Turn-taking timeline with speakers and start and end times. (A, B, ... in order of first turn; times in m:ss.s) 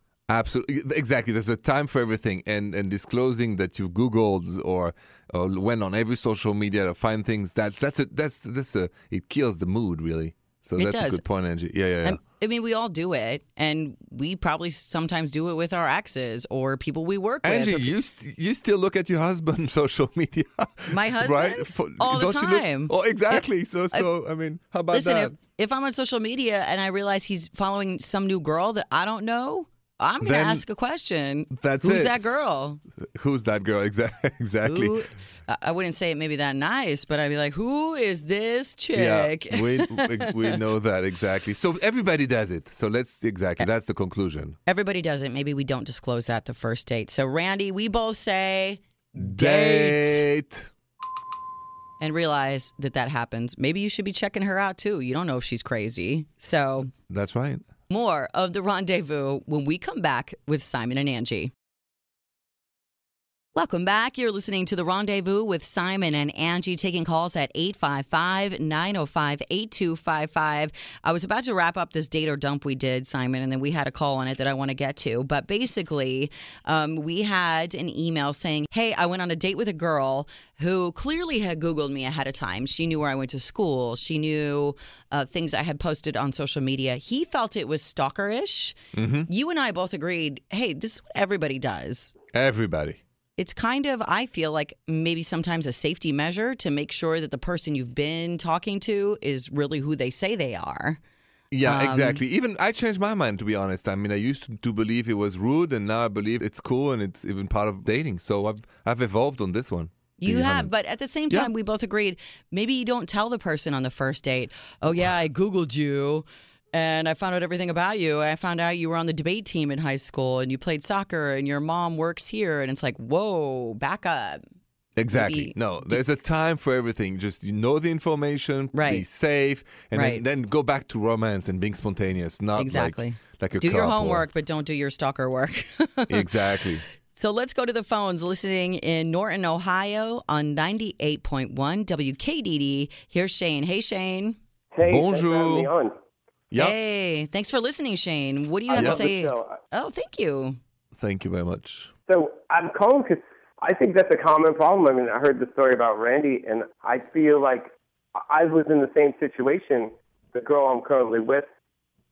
0:00.3-0:12.2 A
0:10.8-0:11.2 B
0:12.0-0:17.9 B
0:17.4-0:25.4 A
0:20.9-0:24.1 B
0:24.9-0:32.8 B
0:30.2-0:30.6 A
0:31.5-0:35.0 A
0:34.6-0:40.6 B
0:38.9-0:44.6 A
0:44.7-0:50.3 B
0:49.2-0:50.7 A
0:52.0-0:56.9 B
0:57.1-0:57.6 A
0:57.9-1:01.5 B
1:03.6-1:32.2 B
1:28.9-1:29.3 A
1:32.3-1:33.0 A
1:33.4-1:41.0 B
1:41.5-1:50.7 A
1:41.6-1:42.2 B
1:50.2-2:04.4 B
2:05.0-2:14.2 A
2:05.1-2:06.0 B
2:08.7-2:09.0 B
2:09.9-2:10.2 B
2:12.6-2:16.6 B
2:16.1-2:16.8 A
2:17.1-2:24.4 B
2:24.7-2:26.0 C
2:24.8-2:25.7 A
2:26.6-2:30.6 B
2:28.7-2:29.6 C
2:28.8-2:29.0 A
2:31.0-2:31.9 A
2:32.1-2:41.5 C